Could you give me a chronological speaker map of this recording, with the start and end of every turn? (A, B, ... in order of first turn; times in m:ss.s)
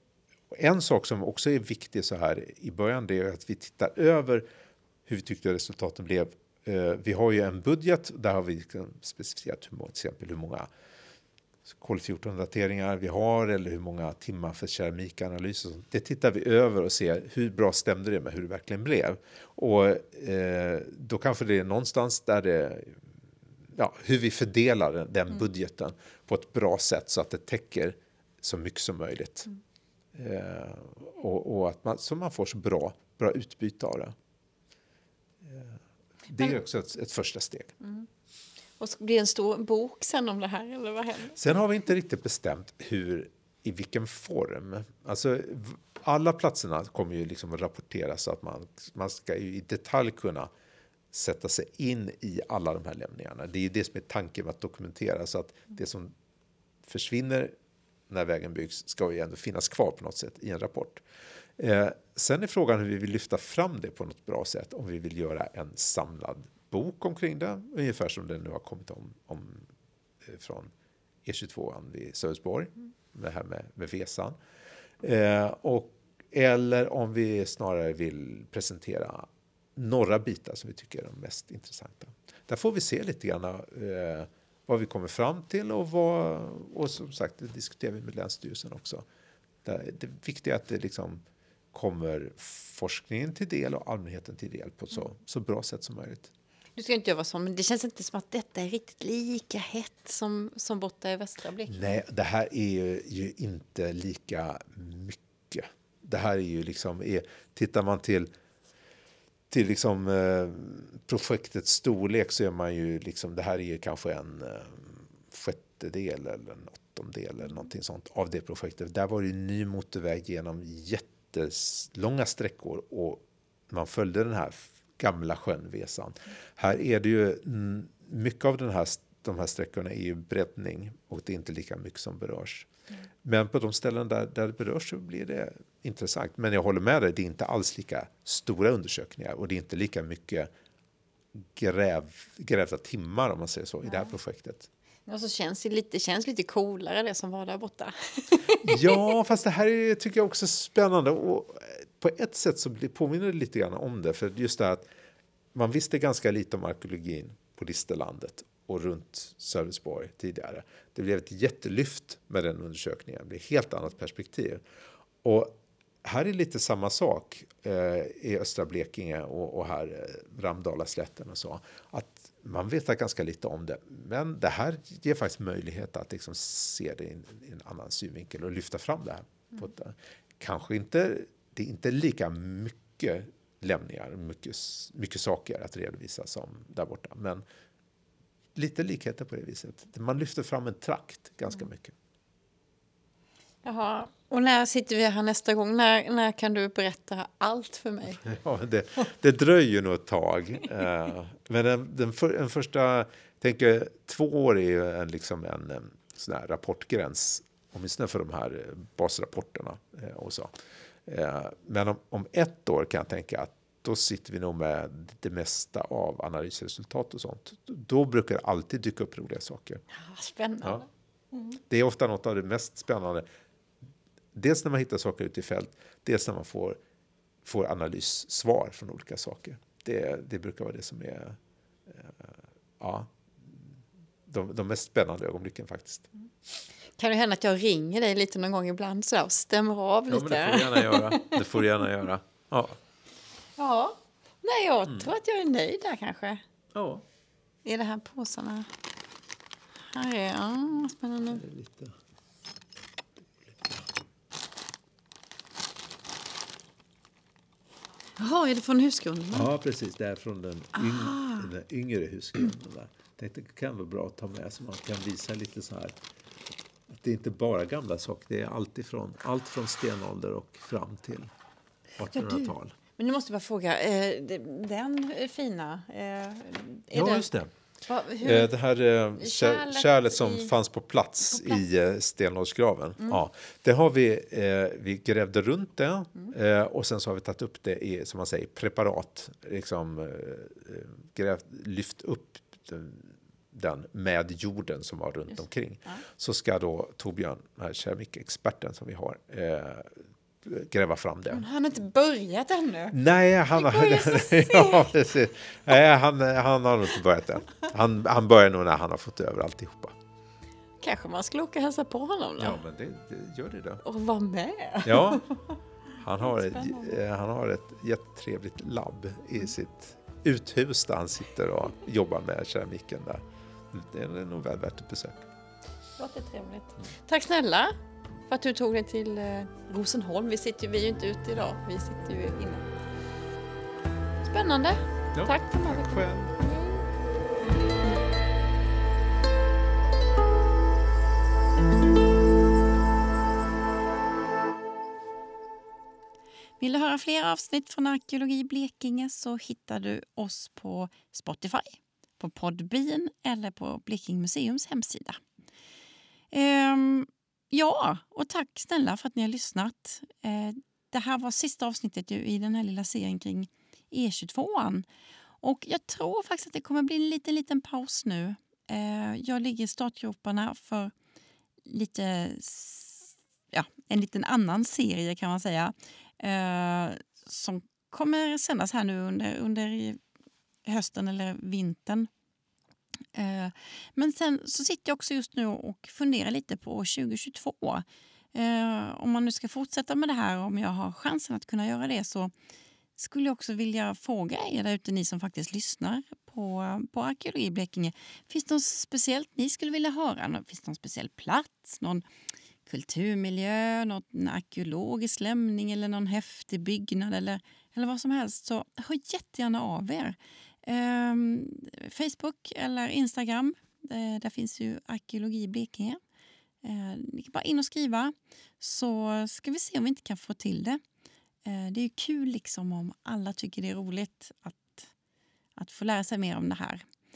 0:00.5-0:04.4 A
0:05.0-0:10.7 A
0:11.7-0:23.1 A
0:23.7-0:29.5 A
0:30.1-0:34.1 A
0:35.4-0:37.7 A
0:38.8-0:41.4 B
0:41.3-0:50.5 A
0:51.1-0:56.1 A
0:56.8-0:57.5 A
0:58.1-1:01.0 A
1:01.6-1:09.7 A
1:10.2-1:10.7 A
1:11.2-1:14.4 A
1:15.0-1:29.0 A
1:29.6-1:36.3 A
1:36.8-1:42.0 B
1:41.7-1:48.3 A
1:49.5-2:12.7 A
2:13.2-2:20.5 A
2:21.4-2:24.7 A
2:25.1-2:29.1 B
2:28.6-2:34.8 A
2:35.5-2:44.6 A
2:45.2-3:07.4 A
3:08.6-3:12.0 A
3:13.6-3:18.3 B
3:18.2-3:30.5 A
3:31.1-3:39.8 A
3:39.9-3:41.6 B
3:41.6-3:43.2 A
3:44.3-3:46.8 A
3:47.4-3:53.7 A
3:54.3-3:56.1 A
3:57.0-4:01.6 B
4:00.1-4:02.8 A
4:03.6-4:06.4 B
4:04.9-4:05.1 A
4:06.7-4:07.0 A
4:07.6-4:08.7 B
4:09.9-4:11.4 B
4:11.3-4:11.9 A
4:13.4-4:13.8 A
4:18.2-4:19.5 B
4:19.3-4:26.0 A
4:20.8-4:21.5 B
4:26.9-4:31.3 A
4:32.0-4:32.8 A
4:32.2-4:37.3 B
4:36.9-4:37.5 A
4:37.8-4:38.5 B
4:38.2-5:01.5 A
4:39.2-4:40.5 B
4:41.3-4:41.6 B
5:01.3-5:03.0 B
5:02.9-5:10.0 A
5:03.5-5:04.9 B
5:10.8-5:12.6 B
5:12.4-5:13.8 A
5:13.8-5:15.5 B
5:14.8-5:15.2 A
5:16.0-5:25.3 A
5:16.4-5:16.9 B
5:26.0-5:27.8 B
5:28.3-5:32.7 B
5:34.2-5:36.8 B
5:35.1-5:36.4 A
5:46.6-5:55.2 B
5:56.3-6:04.9 B
6:05.4-6:10.9 B
6:11.7-6:20.0 B
6:20.6-6:22.1 B
6:23.1-6:32.3 B
6:33.0-6:42.1 B
6:42.7-6:56.0 B
6:56.6-7:00.8 B
7:01.4-7:04.9 B
7:05.6-7:06.9 B